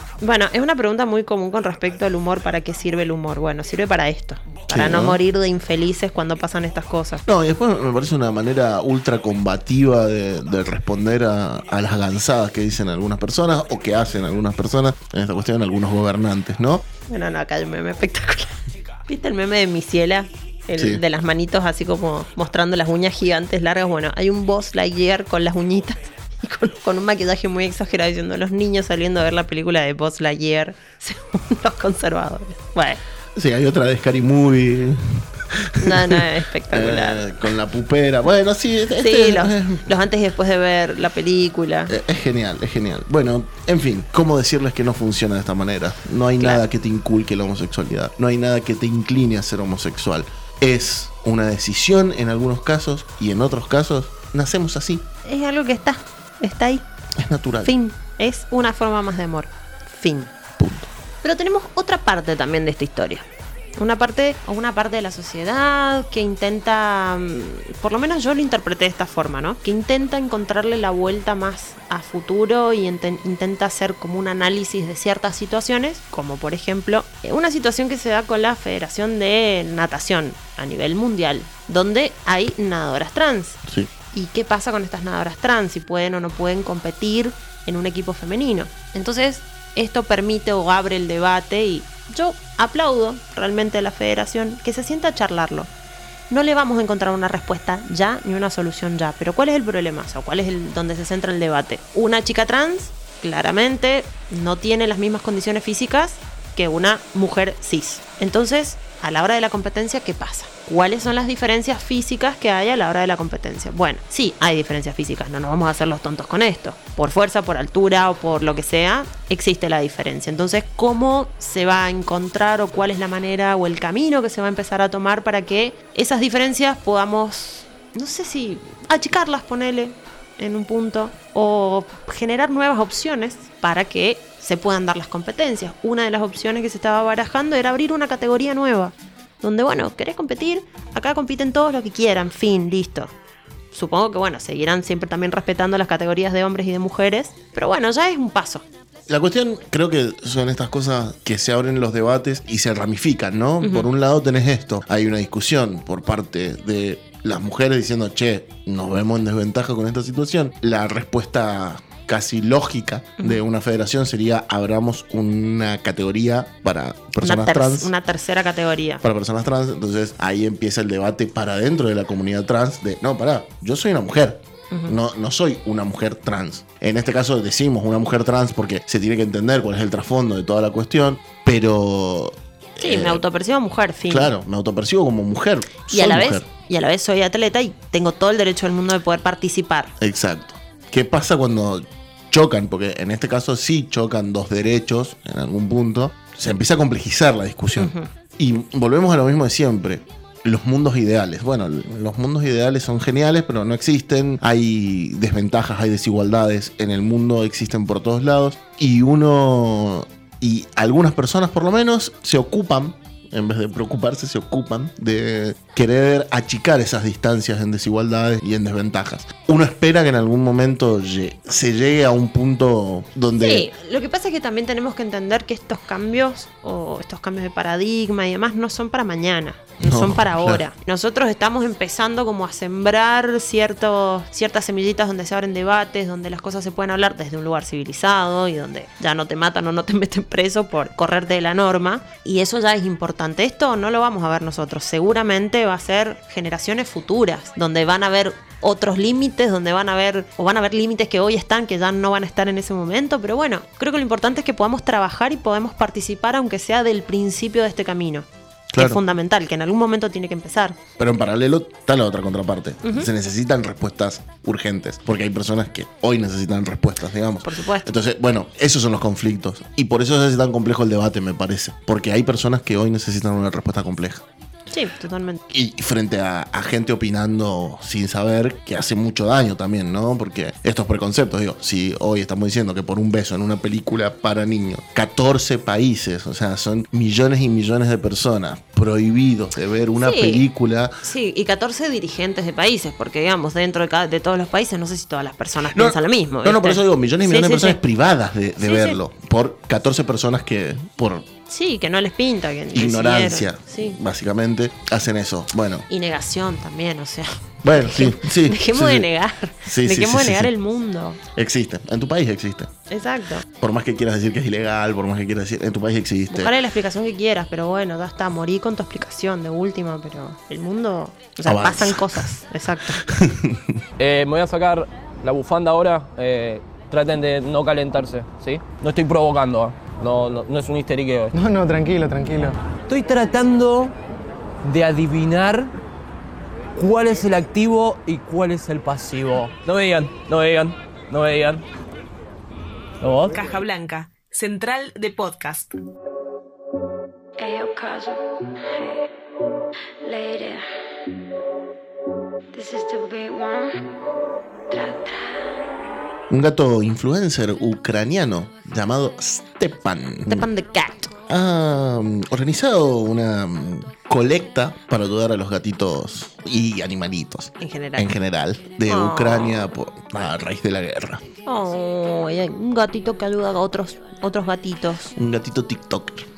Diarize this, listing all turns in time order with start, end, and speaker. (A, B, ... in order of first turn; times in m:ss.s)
0:00.2-0:07.2 A
0:04.7-0:05.2 B
0:07.2-0:16.8 B
0:17.1-0:33.0 A
0:20.8-0:21.0 B
0:33.3-0:39.9 B
0:35.8-0:37.2 A
0:39.0-0:41.9 A
0:41.9-0:55.0 B
0:55.2-0:56.8 A
0:57.2-0:57.7 B
0:57.6-1:00.3 A
1:00.6-1:00.9 B
1:01.2-1:03.2 A
1:03.8-1:23.6 A
1:24.1-1:35.7 A
1:36.3-2:23.1 A
2:23.7-2:28.6 A
2:29.1-2:47.9 B
2:33.6-2:33.9 A
2:47.2-2:49.0 A
2:49.0-3:03.2 B
3:02.8-3:04.3 A
3:04.1-3:06.4 B
3:05.9-3:09.9 A
3:10.0-3:43.7 B
3:17.8-3:18.1 A
3:43.4-4:20.8 A
3:49.8-3:50.6 B
4:18.7-4:19.0 B
4:21.0-4:34.2 B
4:22.8-4:23.1 A
4:27.4-4:27.9 A
4:34.7-4:35.4 A
4:35.5-4:50.9 B
4:50.0-4:50.4 A
4:51.0-4:57.8 A
4:55.7-5:01.3 B
4:58.6-4:59.0 A
5:01.5-5:04.0 A
5:02.7-5:05.8 B
5:05.9-5:11.2 A
5:07.6-5:09.1 B
5:09.6-5:10.5 B
5:11.3-5:12.7 B
5:12.9-5:13.5 A
5:13.6-5:16.5 B
5:16.3-5:23.0 A
5:21.4-5:22.2 B
5:23.0-5:23.8 B
5:24.0-5:33.9 C
5:34.6-5:35.7 C
5:36.7-5:41.6 C
5:43.0-5:43.3 C
5:43.2-5:45.7 D
5:47.4-5:49.0 E
5:50.0-5:50.7 E
5:52.5-5:53.8 E
5:54.7-5:55.6 E
5:56.3-6:00.5 B
6:00.3-6:01.2 A
6:01.3-6:11.2 B
6:07.6-6:08.1 A
6:08.8-6:09.6 A
6:11.4-6:15.1 A
6:15.2-6:16.2 B